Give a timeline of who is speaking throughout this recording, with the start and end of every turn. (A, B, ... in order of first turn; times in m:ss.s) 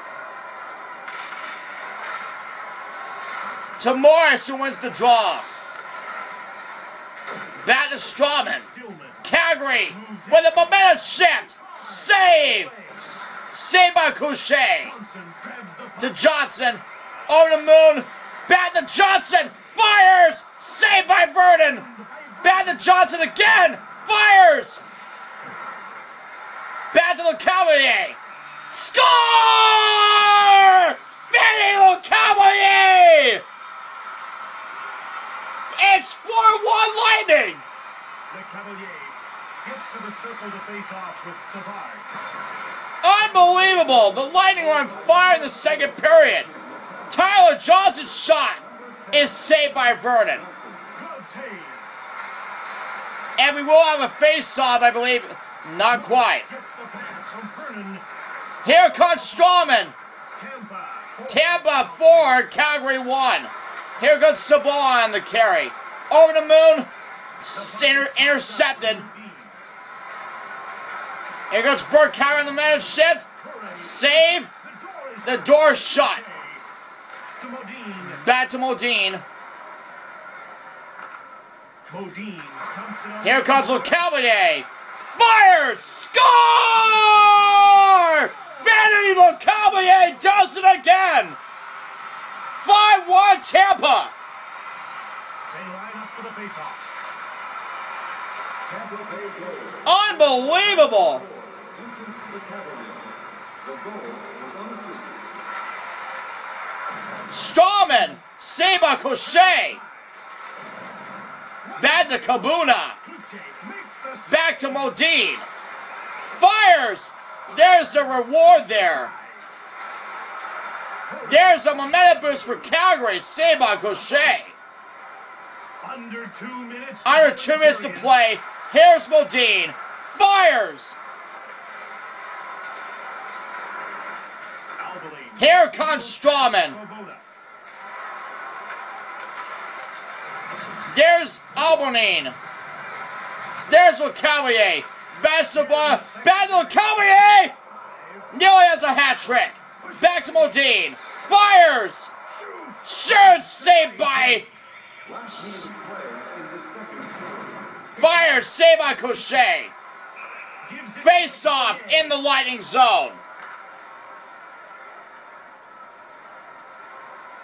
0:03.8-0:05.5 A
0:07.6-0:08.7 A
0:08.4-0:09.3 B
0:09.2-0:14.9 A
0:09.8-0:13.1 B
0:14.8-0:16.2 B
0:16.0-0:21.9 A
0:21.6-0:23.0 B
0:22.4-0:24.8 A
0:26.9-0:28.2 A
0:28.7-0:33.4 A
0:35.8-0:37.6 A
0:38.3-0:42.1 B
0:43.0-0:46.5 A
0:44.8-0:45.8 B
0:46.5-0:46.9 C
0:47.1-0:50.5 A
0:48.7-0:49.1 B
0:48.9-0:49.2 C
0:50.5-0:50.9 C
0:50.9-0:51.9 B
0:53.4-0:56.5 A
0:55.9-0:58.0 B
0:58.6-1:00.0 A
0:58.9-0:59.6 B
1:00.4-1:02.5 B
1:01.3-1:06.9 A
1:07.4-1:09.0 A
1:07.5-1:09.6 B
1:11.5-1:14.5 A
1:13.4-1:16.6 B
1:15.2-1:16.2 A
1:17.4-1:18.2 B
1:18.0-1:19.2 A
1:21.9-1:24.0 B
1:23.2-1:31.4 A
1:27.1-1:28.7 B
1:32.6-1:34.1 A
1:35.5-1:36.8 B
1:38.7-1:39.9 C
1:39.8-1:41.3 A
1:41.6-1:43.1 C
1:43.7-1:45.1 C
1:47.3-1:49.8 A
1:48.6-1:50.1 B
1:51.6-1:55.0 B
1:51.8-1:53.0 A
1:54.3-1:55.5 A
1:56.3-1:59.1 A
1:57.5-1:59.5 B
2:01.1-2:02.7 B
2:01.2-2:04.6 A
2:05.8-2:08.2 B
2:07.0-2:11.0 A
2:14.8-2:17.2 B
2:15.4-2:16.8 A
2:20.9-2:22.4 A
2:23.5-2:27.6 A
2:25.5-2:27.4 B
2:27.9-2:28.3 B
2:28.3-2:32.1 A
2:29.8-2:30.6 B
2:32.3-2:34.5 B
2:32.8-2:34.5 A
2:35.1-2:37.5 C
2:35.3-2:35.7 A
2:38.0-2:39.7 A
2:38.0-2:38.4 B
2:40.6-2:42.2 B
2:41.0-2:43.2 A